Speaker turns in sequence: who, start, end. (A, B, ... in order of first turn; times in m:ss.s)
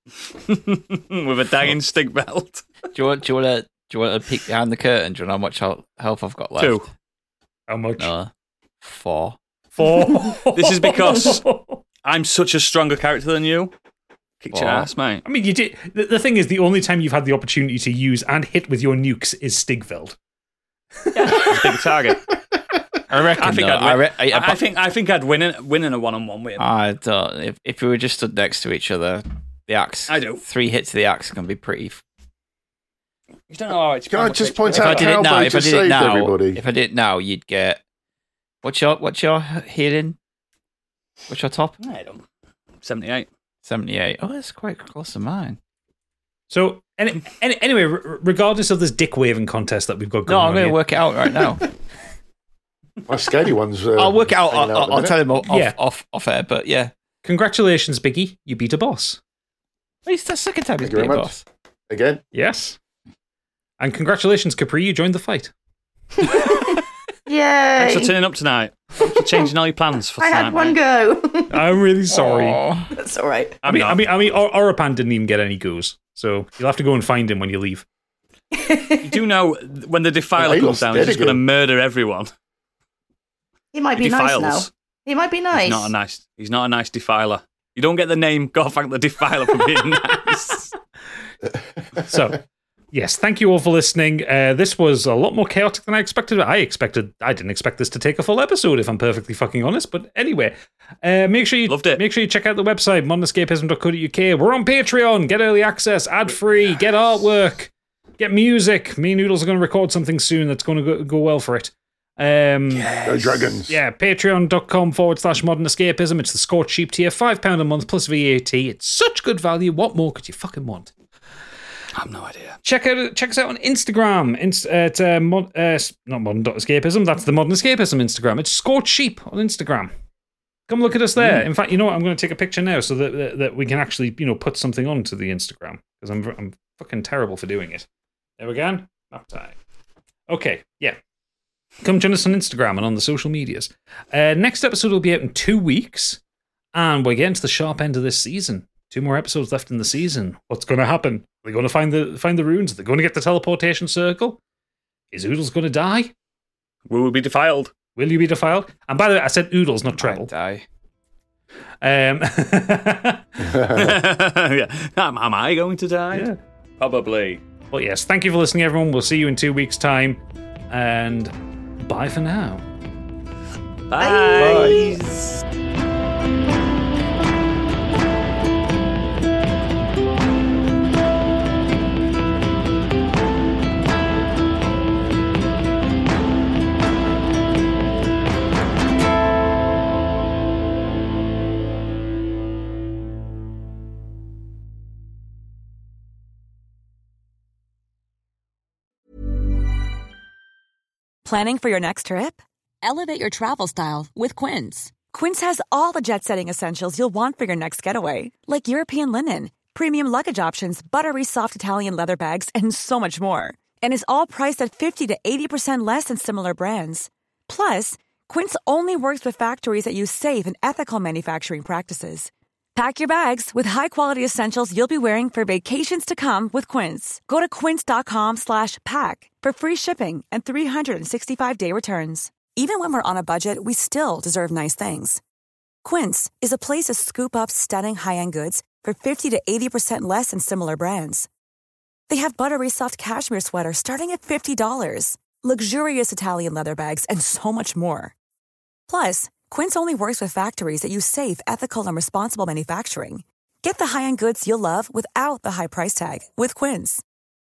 0:00.4-0:02.6 A
0:02.9-0:06.9 B
0:06.6-0:06.9 A
0:07.7-0:08.1 C
0:08.0-0:09.4 B
0:09.8-0:11.8 C
0:10.5-0:11.4 A
0:12.0-0:13.7 A
0:14.4-0:15.2 A
0:14.5-0:14.9 B
0:15.2-0:20.2 C
0:21.1-0:21.5 C
0:21.2-0:22.2 A
0:23.1-0:24.6 B
0:23.4-0:26.6 A
0:26.6-0:32.0 B
0:30.1-0:30.4 A
0:33.5-0:35.2 A
0:34.1-0:36.6 D
0:34.7-0:37.8 B
0:38.6-0:40.2 B
0:41.3-0:41.8 B
0:41.8-0:42.2 A
0:42.8-0:43.3 A
0:43.6-0:45.6 B
0:46.5-0:50.8 C
0:50.3-0:51.6 B
0:53.1-0:55.2 D
0:54.0-0:56.9 B
0:55.5-0:55.8 C
0:57.2-0:59.2 C
1:00.1-1:01.4 B
1:00.8-1:01.3 D
1:01.9-1:02.2 D
1:02.3-1:02.8 C
1:03.8-1:05.5 C
1:06.2-1:08.1 E
1:07.8-1:10.8 A
1:10.2-1:11.6 E
1:11.5-1:12.6 C
1:12.1-1:12.9 B
1:12.9-1:13.6 E
1:13.6-1:14.0 A
1:13.6-1:17.8 C
1:18.5-1:19.2 E
1:19.0-1:22.3 A
1:20.4-1:21.4 D
1:23.7-1:25.9 E
1:24.0-1:24.7 A
1:25.5-1:30.7 A
1:32.0-1:32.4 C
1:32.9-1:53.1 C
1:41.7-1:42.0 A
1:52.7-1:53.4 A
1:53.0-1:53.8 D
1:53.6-2:00.9 C
2:02.0-2:02.6 A
2:02.6-2:09.9 C
2:10.7-2:17.9 C
2:18.4-2:19.6 C
2:20.3-2:21.0 C
2:21.8-2:26.2 C
2:26.7-2:34.4 C
2:35.1-2:36.1 C
2:36.9-2:37.7 A
2:38.0-2:40.3 C
2:39.9-2:40.6 B
2:41.8-2:43.4 C
2:43.4-2:44.0 D
2:43.7-2:47.4 A
2:46.1-2:46.4 C
2:47.7-2:52.6 C
2:53.9-2:55.0 A
2:54.0-2:54.9 E
2:54.3-2:55.4 B
3:21.2-3:55.2 F
3:55.8-4:01.3 F
4:02.1-4:08.1 F
4:08.9-4:17.0 F